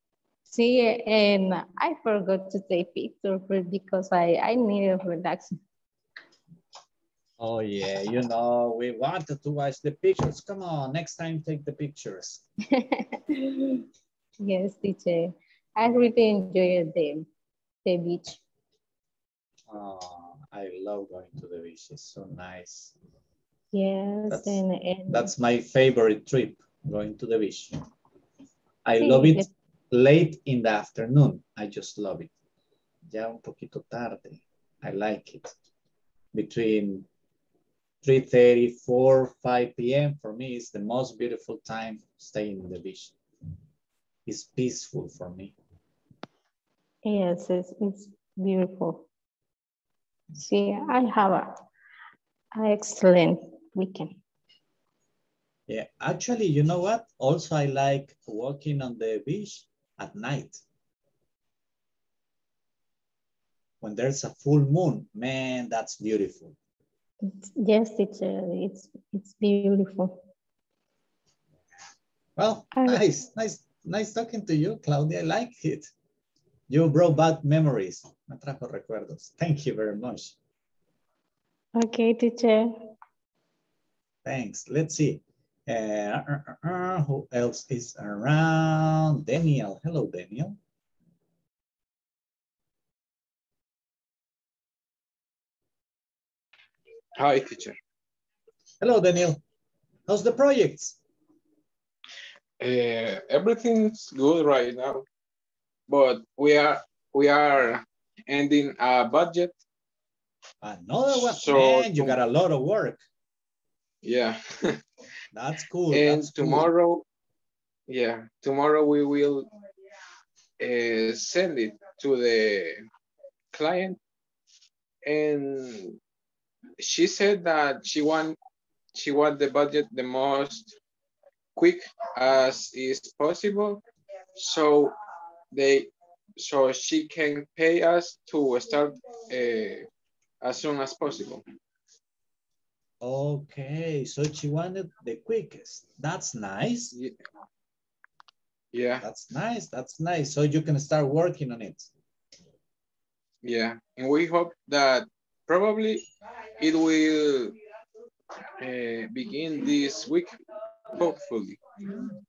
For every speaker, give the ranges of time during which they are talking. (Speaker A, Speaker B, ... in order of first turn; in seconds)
Speaker A: 0.5-5.5, 12.7-13.8, 14.4-17.3, 17.9-18.4, 23.7-25.3, 29.0-29.5, 47.0-49.0, 50.3-51.5, 52.5-54.2, 67.2-70.2, 72.7-73.0, 81.8-82.7
Speaker B: 7.4-12.4, 19.7-22.9, 24.3-27.8, 28.8-32.3, 33.1-35.5, 36.3-37.1, 38.0-43.1, 44.2-45.5, 55.7-60.6, 63.8-66.5, 72.4-75.9, 76.7-80.3, 84.2-90.6, 98.8-99.4, 100.1-101.0, 110.6-113.0, 115.3-116.7, 143.0-146.9, 149.0-151.9
Speaker C: 97.2-97.8, 102.6-105.0, 105.9-109.6, 111.1-112.2, 114.0-114.8, 115.9-117.0, 117.9-119.5, 120.6-122.8, 123.5-124.0, 125.0-126.0, 126.8-128.4, 128.9-130.8, 131.6-133.8, 134.4-134.9, 135.5-139.9, 140.4-141.4, 148.7-149.0, 153.4-156.0, 156.6-157.6, 158.6-160.3, 160.9-161.6